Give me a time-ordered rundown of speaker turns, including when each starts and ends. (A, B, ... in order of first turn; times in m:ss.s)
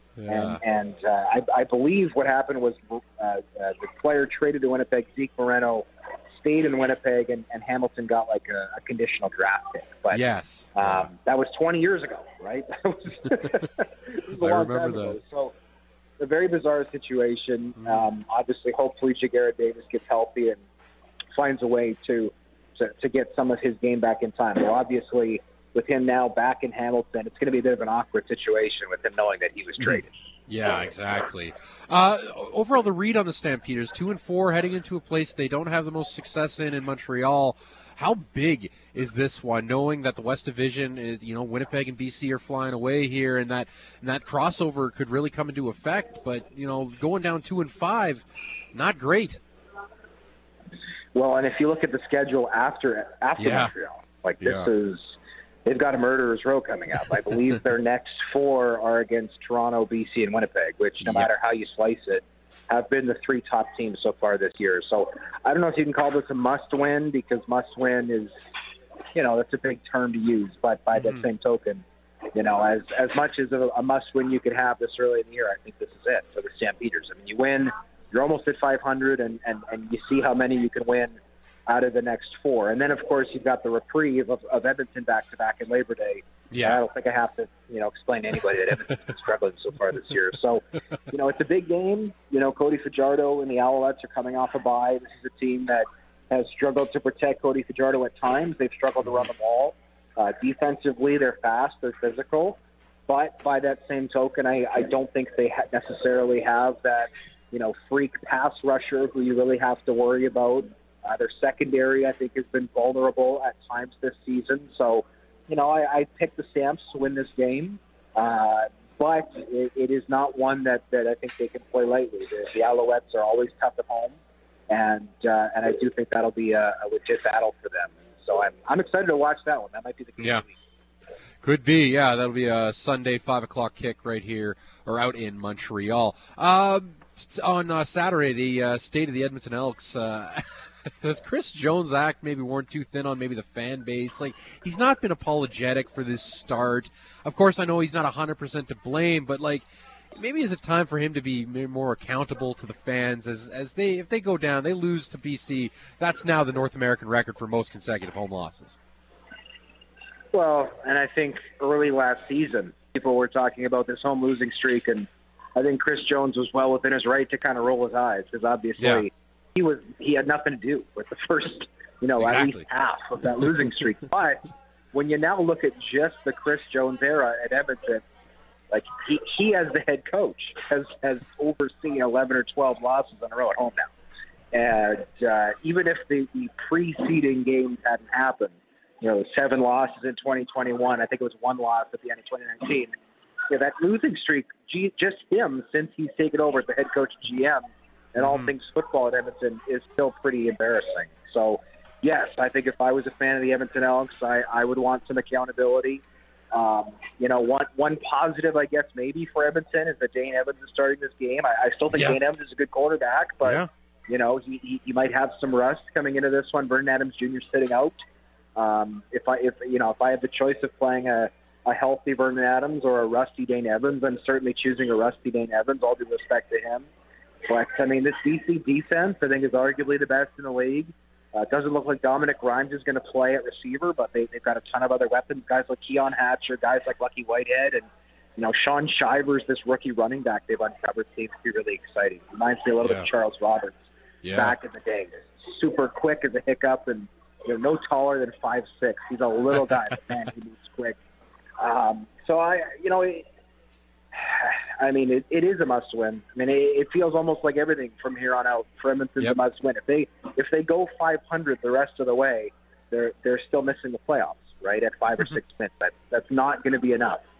0:00.2-0:00.6 A
0:00.3-0:10.2 B
0:10.1-0:11.1 A
0:10.8-0:15.5 B
0:14.4-0:15.2 A
0:16.2-0:20.6 B
0:21.3-0:30.1 B
0:29.8-0:49.4 A
0:51.1-0:55.1 B
0:53.4-0:53.7 A
0:54.4-0:54.7 A
0:55.6-1:08.3 B
1:01.0-1:01.3 A
1:09.1-2:04.2 B
1:26.5-1:26.8 A
2:04.7-2:10.6 B
2:10.2-2:10.4 A
2:11.4-2:38.8 A
2:40.3-2:54.4 B
2:48.8-2:49.0 A
2:52.2-2:52.6 A
2:54.9-2:58.0 B
2:58.7-3:03.9 B
3:04.5-3:12.9 B
3:13.5-3:38.0 B
3:18.2-3:18.5 A
3:31.9-3:32.2 A
3:33.4-3:33.7 A
3:38.6-3:46.9 B
3:47.4-4:03.8 B
4:04.2-4:04.5 A
4:04.3-4:11.0 B
4:11.6-4:13.2 B
4:14.1-4:27.2 B